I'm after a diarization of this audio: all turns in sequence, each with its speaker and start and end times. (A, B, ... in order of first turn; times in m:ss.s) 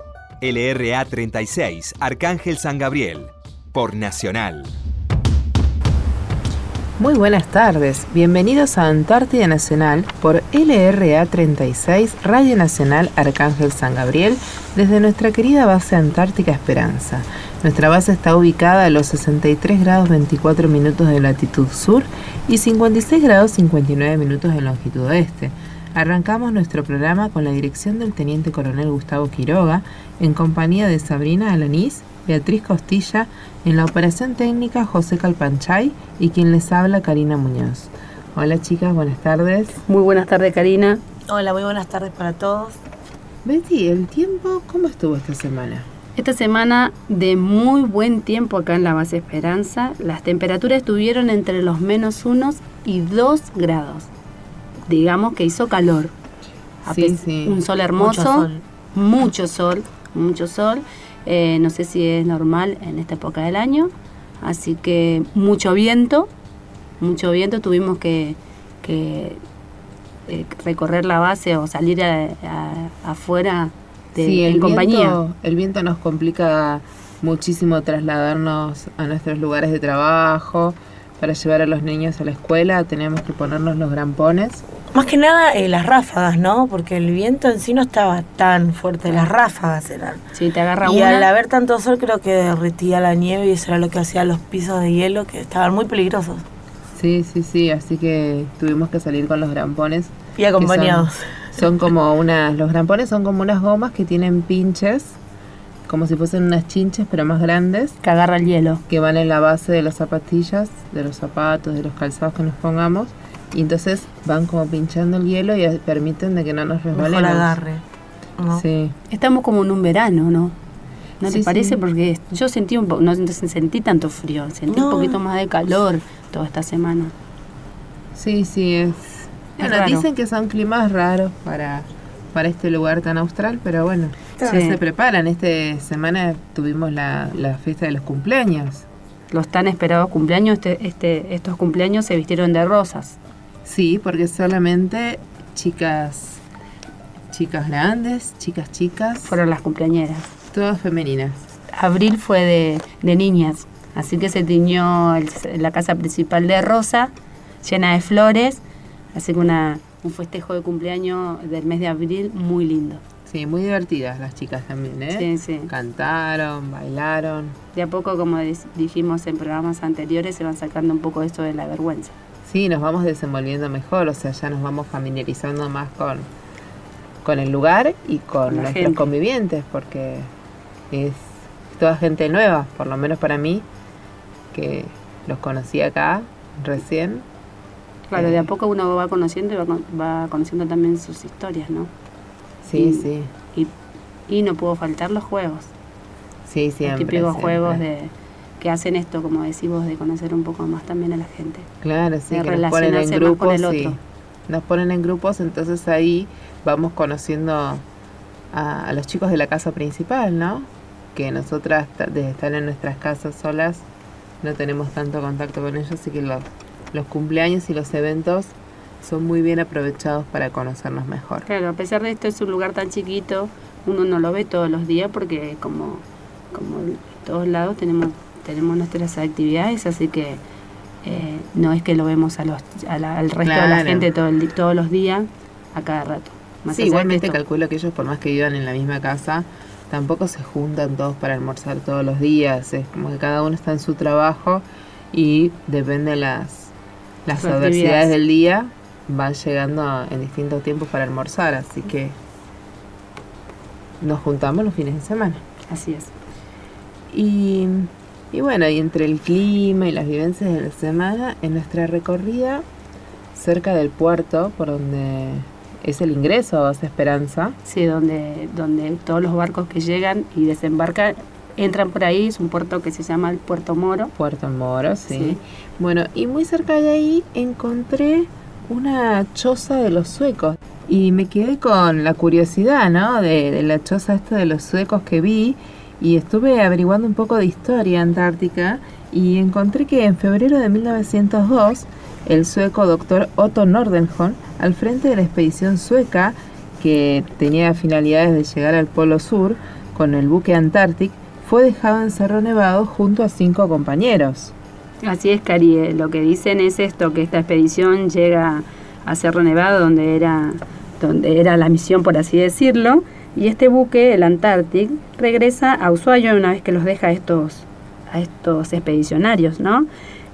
0:00.4-0:04.7 A
0:07.0-0:39.8 B
0:39.9-0:41.0 C
0:41.3-0:42.8 D
0:43.4-0:45.9 B
0:46.2-0:54.1 C
0:54.9-0:56.1 C
0:56.9-0:57.6 B
0:56.9-1:03.9 C
0:58.0-0:58.6 D
1:04.4-1:06.3 C
1:07.0-1:09.4 C
1:10.3-1:15.2 C
1:14.2-1:24.6 B
1:24.9-1:30.2 D
1:30.3-1:31.3 C
1:30.8-1:36.4 D
1:37.0-1:45.2 B
1:40.4-1:41.2 D
1:45.9-1:48.0 B
1:48.0-1:48.8 C
1:48.9-1:57.6 B
1:56.9-1:57.8 D
1:58.5-1:59.0 B
1:59.1-2:00.6 C
2:01.2-2:07.1 C
2:01.3-2:01.8 B
2:04.7-2:05.2 D
2:08.2-2:18.8 B
2:09.6-2:10.1 C
2:14.4-2:14.8 C
2:19.3-2:23.2 C
2:23.6-2:26.4 B
2:27.3-2:29.3 B
2:29.3-2:30.3 C
2:30.5-2:31.5 B
2:31.7-2:37.1 C
2:37.6-2:38.6 C
2:39.1-2:43.0 C
2:43.3-2:47.6 B
2:45.1-2:45.7 C
2:47.7-2:52.2 C
2:52.5-2:56.3 B
2:57.2-3:00.3 B
2:58.5-2:59.0 C
3:00.9-3:03.6 B
3:04.5-3:07.2 B
3:08.1-3:11.9 C
3:08.2-3:08.4 B
3:12.6-3:13.3 B
3:12.8-3:13.7 C
3:14.3-3:15.7 C
3:16.5-3:17.8 B
3:16.8-3:21.7 C
3:21.8-3:27.8 B
3:22.3-3:24.0 C
3:28.5-3:33.8 B
3:34.4-3:41.5 B
3:41.5-3:50.4 C
3:51.0-3:57.4 C
3:53.4-3:54.1 B
3:56.7-4:06.7 B
4:07.3-4:12.2 B
4:07.4-4:08.1 C
4:14.0-4:15.4 B
4:15.7-4:16.1 C
4:17.1-4:22.6 B
4:23.4-4:27.6 B
4:27.6-4:34.1 C
4:34.2-5:04.5 B
4:35.1-4:35.4 C
5:05.0-5:19.9 C